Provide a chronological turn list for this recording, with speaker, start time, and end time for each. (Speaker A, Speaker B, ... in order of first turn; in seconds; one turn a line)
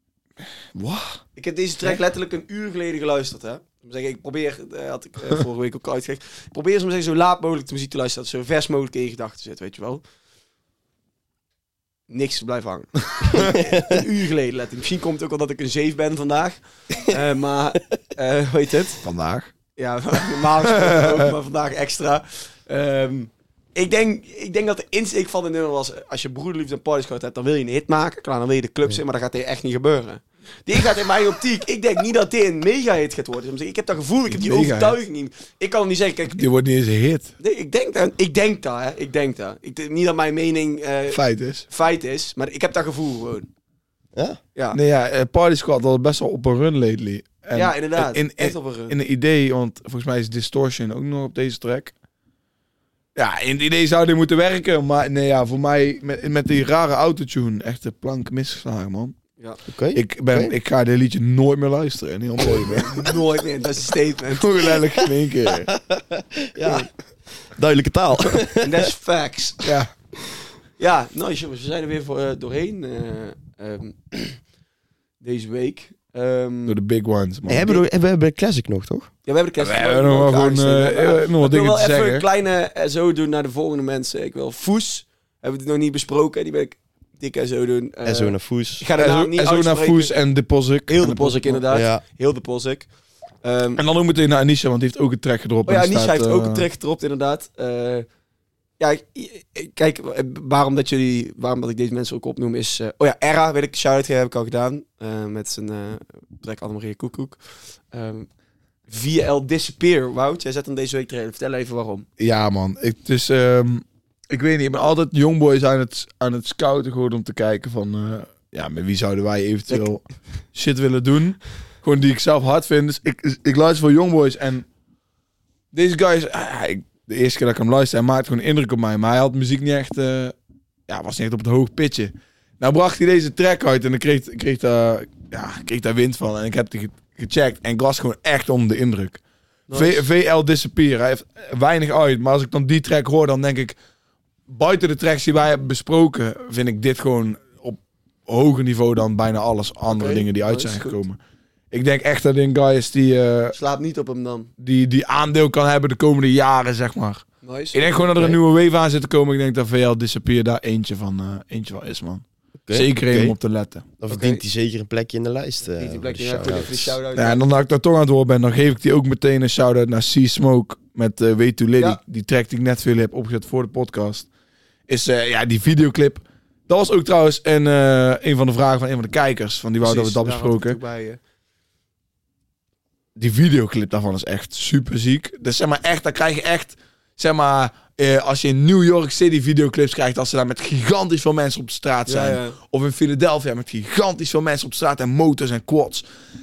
Speaker A: 0.7-1.2
Speaker B: 1.4-10.0
Speaker B: 12.1-19.0
Speaker C: 13.3-14.0
Speaker A: 19.0-19.5
Speaker B: 19.8-36.5
Speaker A: 20.7-21.3
Speaker A: 34.3-35.0
Speaker A: 36.4-37.3
Speaker B: 37.4-43.5
Speaker A: 41.1-41.6
Speaker A: 44.7-51.9
Speaker B: 47.5-48.9
Speaker A: 53.1-59.1
Speaker C: 59.7-60.5
Speaker A: 59.9-63.1
Speaker B: 62.4-64.6
Speaker A: 64.3-65.7
Speaker C: 65.7-66.9
Speaker C: 67.4-68.9
Speaker B: 68.6-69.7
Speaker A: 69.6-69.9
Speaker B: 70.8-74.4
Speaker B: 75.2-76.8
Speaker A: 76.7-77.8
Speaker C: 77.5-79.1
Speaker B: 79.2-90.1
Speaker A: 79.6-82.2
Speaker C: 88.0-88.8
Speaker A: 89.0-91.6
Speaker B: 90.9-92.9
Speaker C: 91.7-92.0
Speaker B: 93.4-93.8
Speaker A: 93.8-96.7
Speaker B: 95.7-98.0
Speaker B: 98.8-107.4
Speaker B: 107.9-108.3
Speaker B: 108.9-112.0
Speaker A: 112.2-124.7
Speaker A: 125.7-130.3
Speaker A: 130.9-139.2
Speaker B: 139.7-140.0
Speaker A: 139.7-143.8
Speaker A: 144.5-151.2
Speaker B: 149.9-151.0
Speaker A: 151.7-153.6
Speaker B: 153.5-154.5
Speaker A: 154.6-163.8
Speaker B: 157.4-157.8
Speaker C: 162.7-163.3
Speaker C: 164.0-167.0
Speaker B: 164.1-164.4
Speaker B: 165.7-167.4
Speaker A: 167.1-174.3
Speaker A: 174.9-180.8
Speaker B: 179.8-181.2
Speaker A: 183.2-196.0
Speaker B: 192.1-192.6